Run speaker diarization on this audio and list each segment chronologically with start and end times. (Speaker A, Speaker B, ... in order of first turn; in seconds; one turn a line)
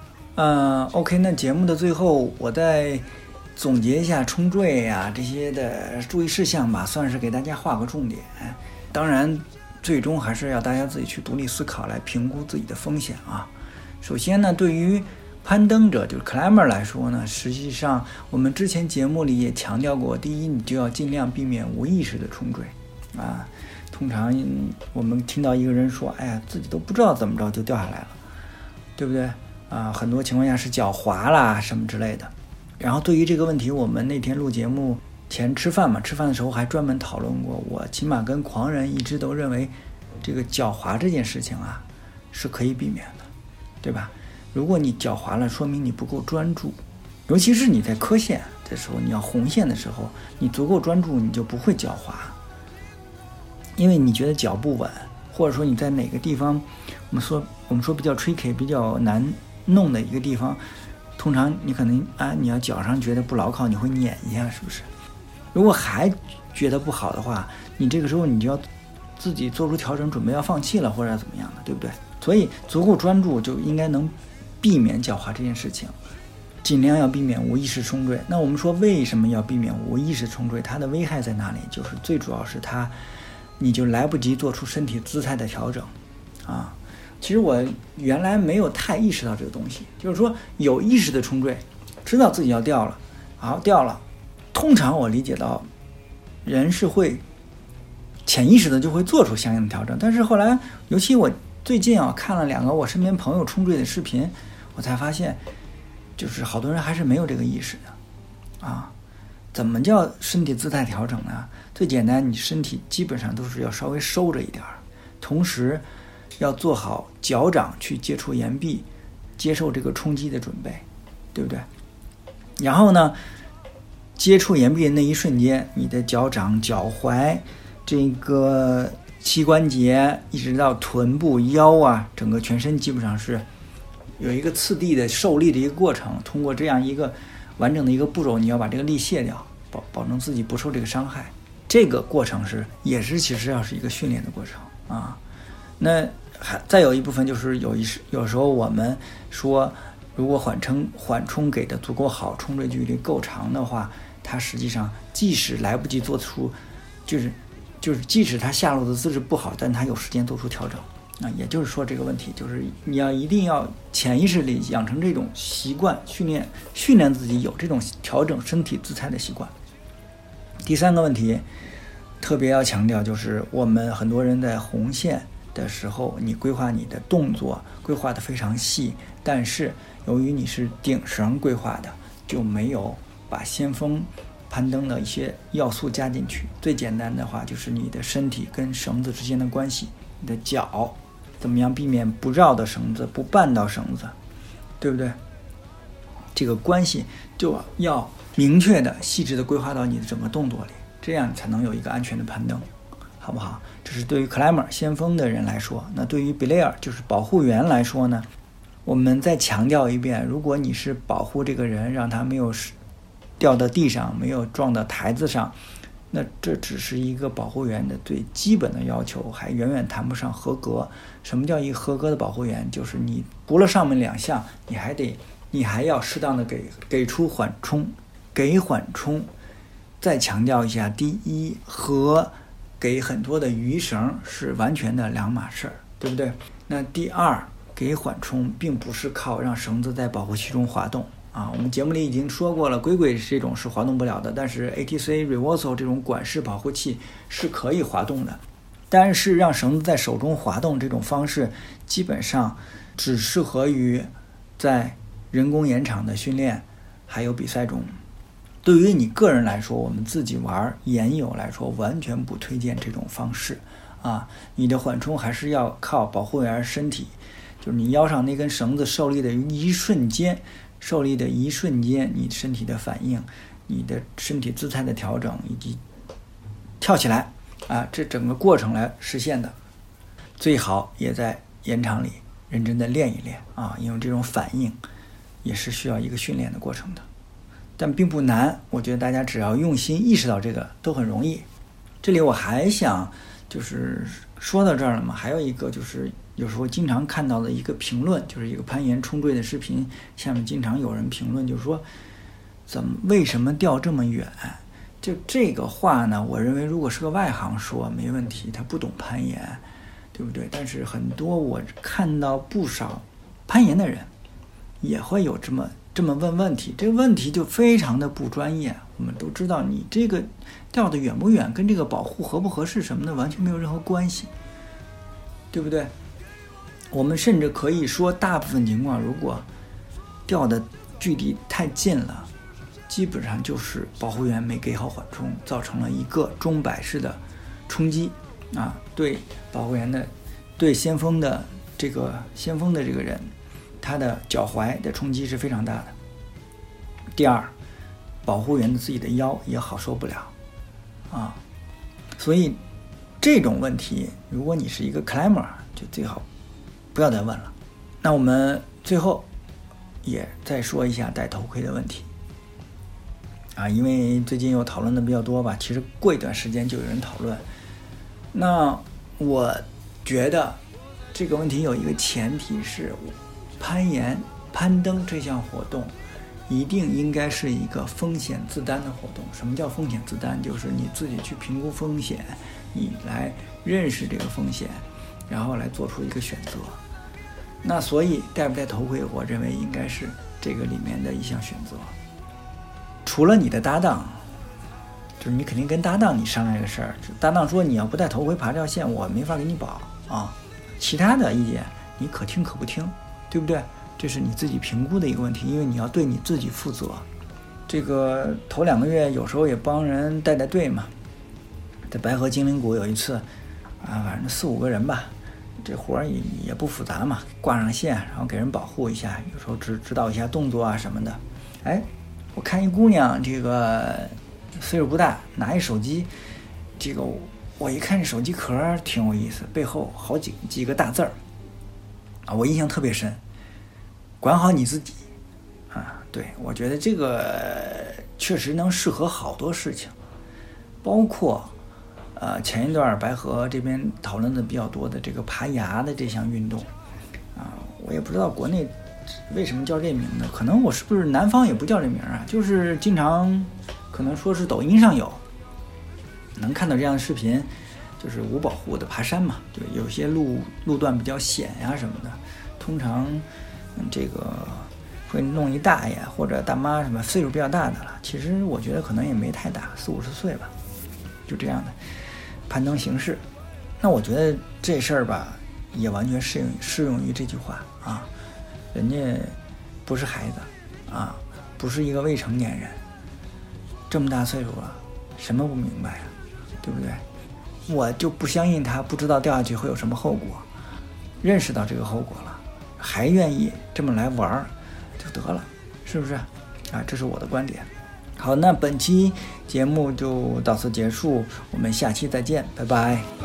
Speaker A: 0.4-28.2
Speaker A: 29.0-43.3
Speaker A: 43.8-52.4
Speaker A: 53.8-60.6
Speaker A: 61.2-64.9
Speaker A: 65.5-76.0
Speaker A: 76.6-83.0
Speaker A: 83.6-85.9
Speaker A: 86.4-94.0
Speaker A: 94.5-95.7
Speaker A: 96.4-97.2
Speaker A: 98.3-105.4
Speaker A: 106.2-108.0
Speaker A: 108.6-108.9
Speaker A: 109.5-115.8
Speaker A: 116.4-118.9
Speaker A: 119.4-121.7
Speaker A: 122.6-123.2
Speaker A: 124.2-133.5
Speaker A: 134.2-145.2
Speaker A: 145.8-169.5
Speaker A: 170.6-171.5
Speaker A: 172.2-194.2
Speaker A: 194.8-195.2
Speaker A: 196.3-202.7
Speaker A: 203.2-208.3
Speaker A: 208.8-212.8
Speaker A: 213.4-215.6
Speaker A: 216.1-229.3
Speaker A: 230.0-258.0
Speaker A: 258.6-275.8
Speaker A: 276.8-279.6
Speaker A: 280.4-284.8
Speaker A: 285.4-287.1
Speaker A: 287.8-291.4
Speaker A: 292.0-301.9
Speaker A: 302.7-309.6
Speaker A: 310.1-314.1
Speaker A: 314.8-324.3
Speaker A: 325.5-325.9
Speaker A: 326.9-329.5
Speaker A: 330.3-332.3
Speaker A: 332.9-345.9
Speaker A: 347.1-347.5
Speaker A: 348.3-350.3
Speaker A: 351.1-351.4
Speaker A: 352.2-352.6
Speaker A: 353.2-356.2
Speaker A: 356.9-359.3
Speaker A: 360.0-362.1
Speaker A: 363.6-367.4
Speaker A: 368.3-370.6
Speaker A: 371.1-376.0
Speaker A: 376.5-386.8
Speaker A: 387.6-391.9
Speaker A: 393.1-394.2
Speaker A: 395.2-407.1
Speaker A: 407.7-410.9
Speaker A: 411.9-413.3
Speaker A: 413.8-426.1
Speaker A: 426.8-431.2
Speaker A: 432.3-433.2
Speaker A: 434.2-435.0
Speaker A: 435.7-439.9
Speaker A: 440.8-441.5
Speaker A: 442.2-446.7
Speaker A: 447.4-455.2
Speaker A: 456.4-470.5
Speaker A: 471.3-471.8
Speaker A: 472.5-473.2
Speaker A: 473.8-478.1
Speaker A: 478.7-482.8
Speaker A: 483.9-487.0
Speaker A: 487.7-490.5
Speaker A: 491.2-503.1